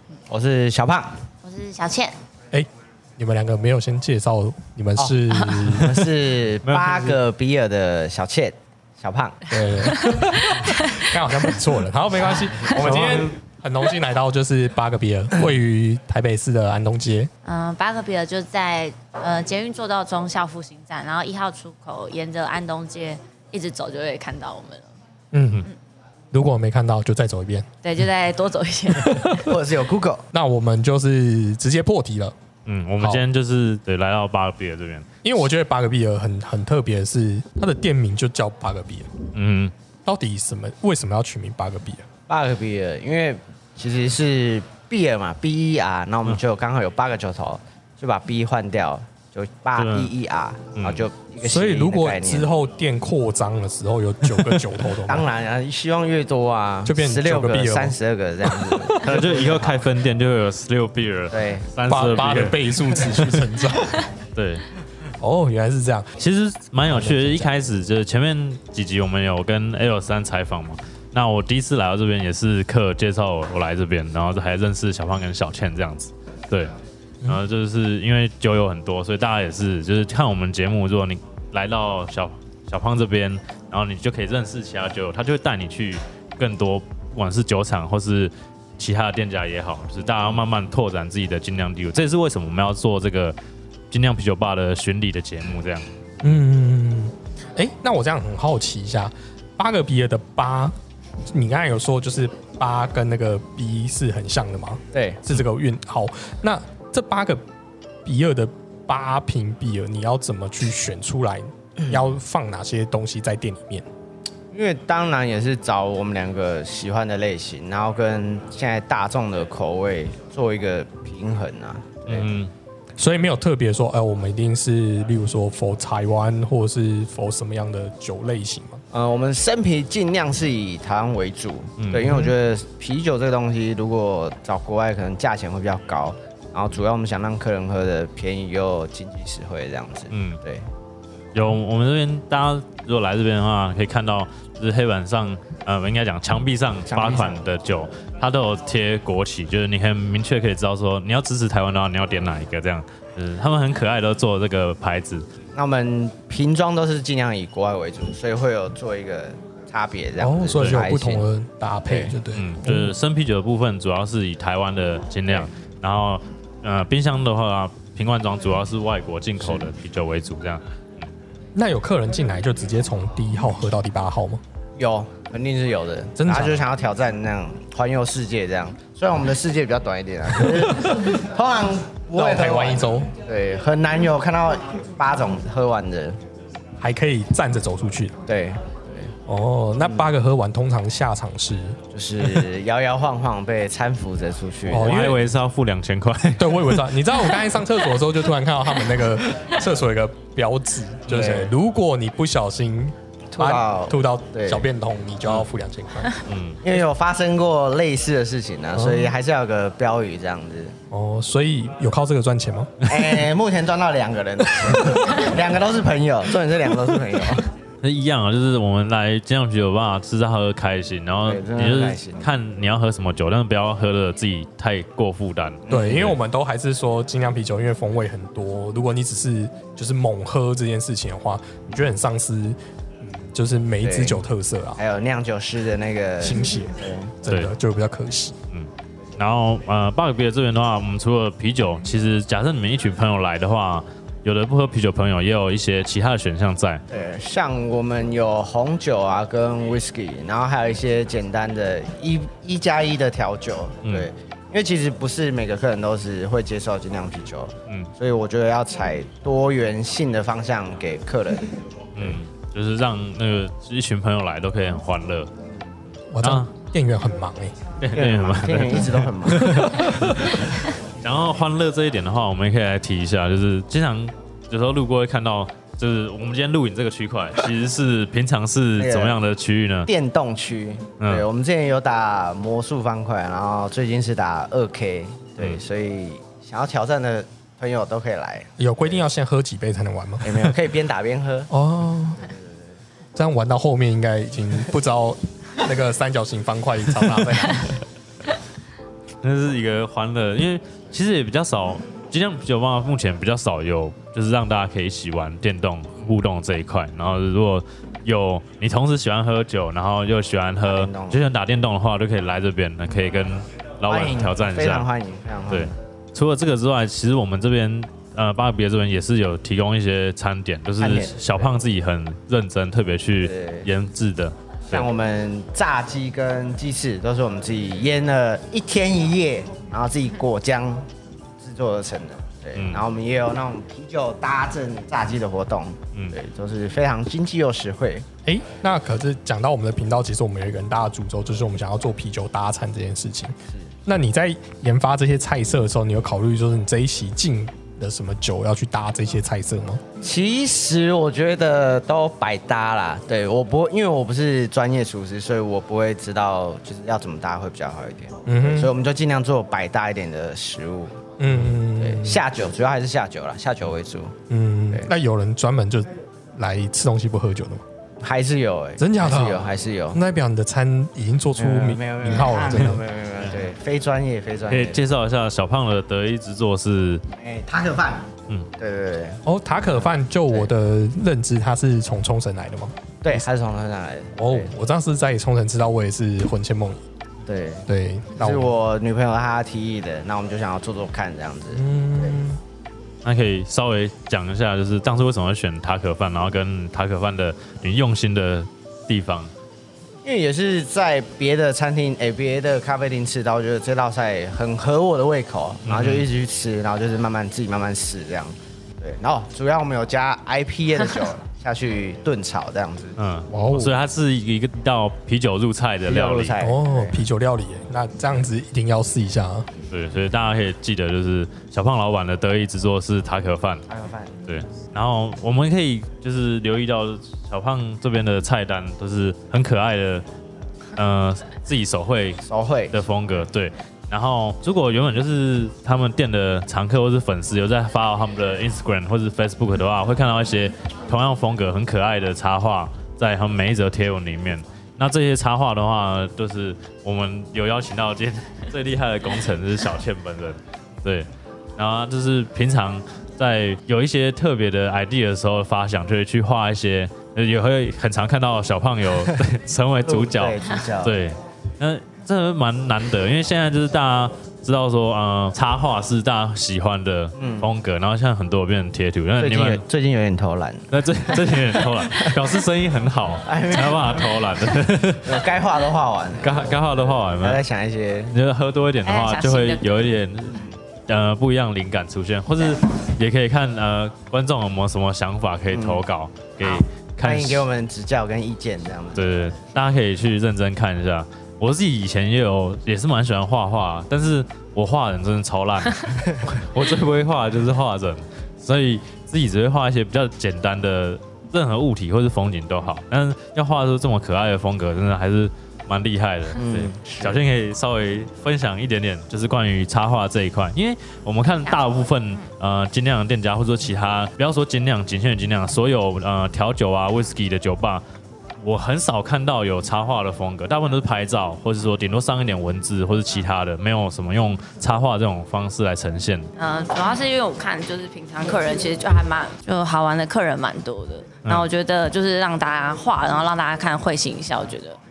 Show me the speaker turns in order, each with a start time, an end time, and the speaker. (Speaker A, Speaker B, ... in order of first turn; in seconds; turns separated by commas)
Speaker A: 0.3-1.2, Speaker B: 1.4-2.2, Speaker C: 2.5-6.1, Speaker A: 5.0-9.4, Speaker D: 6.6-7.2, Speaker C: 9.5-17.3, Speaker B: 9.9-11.6, Speaker D: 12.7-13.4, Speaker B: 17.4-24.9, Speaker C: 25.3-25.7, Speaker C: 26.3-27.7, Speaker B: 27.8-29.5, Speaker A: 29.4-30.2, Speaker C: 30.3-32.4, Speaker D: 32.7-35.1, Speaker C: 35.2-39.1, Speaker D: 39.3-39.7, Speaker C: 40.1-42.1, Speaker A: 42.3-52.5, Speaker D: 49.8-50.1, Speaker D: 50.8-51.1, Speaker C: 51.4-55.3, Speaker D: 54.2-54.7, Speaker A: 55.1-59.9, Speaker C: 56.9-58.0, Speaker C: 58.7-59.1, Speaker D: 59.0-63.6, Speaker A: 61.3-61.7, Speaker C: 61.9-64.0, Speaker D: 64.3-64.7, Speaker C: 65.2-66.2, Speaker D: 66.2-76.7, Speaker C: 66.9-67.5, Speaker D: 77.2-93.4, Speaker D: 93.9-95.9, Speaker C: 96.2-100.8, Speaker C: 101.3-107.4, Speaker A: 104.9-105.2, Speaker C: 108.0-113.9, Speaker A: 111.8-112.1, Speaker A: 114.5-122.3, Speaker D: 122.1-122.5, Speaker C: 123.0-128.8, Speaker A: 128.9-140.7, Speaker D: 131.8-132.2, Speaker C: 132.0-132.3, Speaker D: 140.1-140.4, Speaker D: 141.3-155.3, Speaker A: 146.9-147.4, Speaker A: 155.6-161.3, Speaker C: 160.2-163.0, Speaker A: 161.9-162.2, Speaker D: 162.3-171.1, Speaker A: 169.4-169.7, Speaker C: 171.6-174.4, Speaker A: 174.8-186.2, Speaker C: 176.2-176.6, Speaker C: 182.1-183.1, Speaker C: 186.8-188.2, Speaker A: 188.3-189.1, Speaker C: 189.3-191.8, Speaker A: 191.9-195.0, Speaker C: 194.7-195.3, Speaker D: 194.7-197.1, Speaker C: 196.4-206.2, Speaker A: 201.1-201.5, Speaker A: 203.3-204.7, Speaker D: 206.3-206.6, Speaker A: 206.6-210.7, Speaker C: 208.7-209.2, Speaker C: 210.9-212.7, Speaker A: 212.8-217.5, Speaker D: 217.8-226.1, Speaker A: 221.2-222.3, Speaker A: 225.7-226.2, Speaker C: 225.7-234.8, Speaker A: 233.8-234.2, Speaker A: 234.8-237.1, Speaker C: 236.2-238.4, Speaker D: 237.3-237.5, Speaker D: 238.5-246.8, Speaker A: 246.9-262.2, Speaker D: 253.8-254.1, Speaker D: 261.9-265.3, Speaker C: 266.1-267.6, Speaker D: 266.2-266.5, Speaker D: 267.8-269.8, Speaker A: 267.9-269.4, Speaker C: 269.3-270.4, Speaker D: 271.0-279.9, Speaker A: 278.8-279.2, Speaker A: 279.9-289.0, Speaker D: 281.0-281.2, Speaker C: 288.6-290.6, Speaker A: 290.2-291.5, Speaker C: 291.5-292.3, Speaker A: 292.2-292.7, Speaker C: 293.2-297.7, Speaker D: 299.2-314.9, Speaker A: 310.6-311.2, Speaker A: 313.9-315.7, Speaker D: 315.5-324.9, Speaker A: 320.8-321.6, Speaker A: 323.2-323.7, Speaker A: 324.7-330.9, Speaker A: 331.4-338.1, Speaker D: 332.6-332.9, Speaker C: 338.2-343.3, Speaker C: 343.9-349.8, Speaker A: 350.0-361.0, Speaker C: 358.3-358.7, Speaker C: 361.2-362.2, Speaker A: 361.6-364.1, Speaker C: 364.3-367.6, Speaker A: 368.0-370.0, Speaker C: 368.8-372.8, Speaker A: 371.4-374.8, Speaker D: 374.5-377.0, Speaker A: 377.2-380.5, Speaker C: 379.2-383.2, Speaker A: 383.0-384.5, Speaker C: 384.2-386.8, Speaker A: 387.3-392.2, Speaker C: 387.7-388.5, Speaker C: 391.5-392.4, Speaker D: 393.0-399.3, Speaker A: 400.0-413.0, Speaker D: 405.7-406.1, Speaker D: 413.0-416.4, Speaker C: 413.3-413.8, Speaker A: 415.9-417.0, Speaker C: 416.4-419.5, Speaker D: 419.7-423.6, Speaker A: 423.7-424.2, Speaker D: 424.3-430.1, Speaker D: 430.8-432.2, Speaker A: 432.2-432.8, Speaker D: 432.7-469.6, Speaker A: 459.9-461.0, Speaker A: 467.2-467.5, Speaker A: 469.2-470.7, Speaker D: 470.7-475.2, Speaker A: 471.3-471.6, Speaker A: 473.2-474.1, Speaker A: 475.0-478.1, Speaker D: 476.2-477.4, Speaker D: 478.1-487.5, Speaker B: 478.9-479.8, Speaker A: 485.5-485.8, Speaker A: 487.0-489.1, Speaker D: 488.9-517.8, Speaker A: 506.4-507.2, Speaker D: 518.4-526.3, Speaker B: 526.4-534.8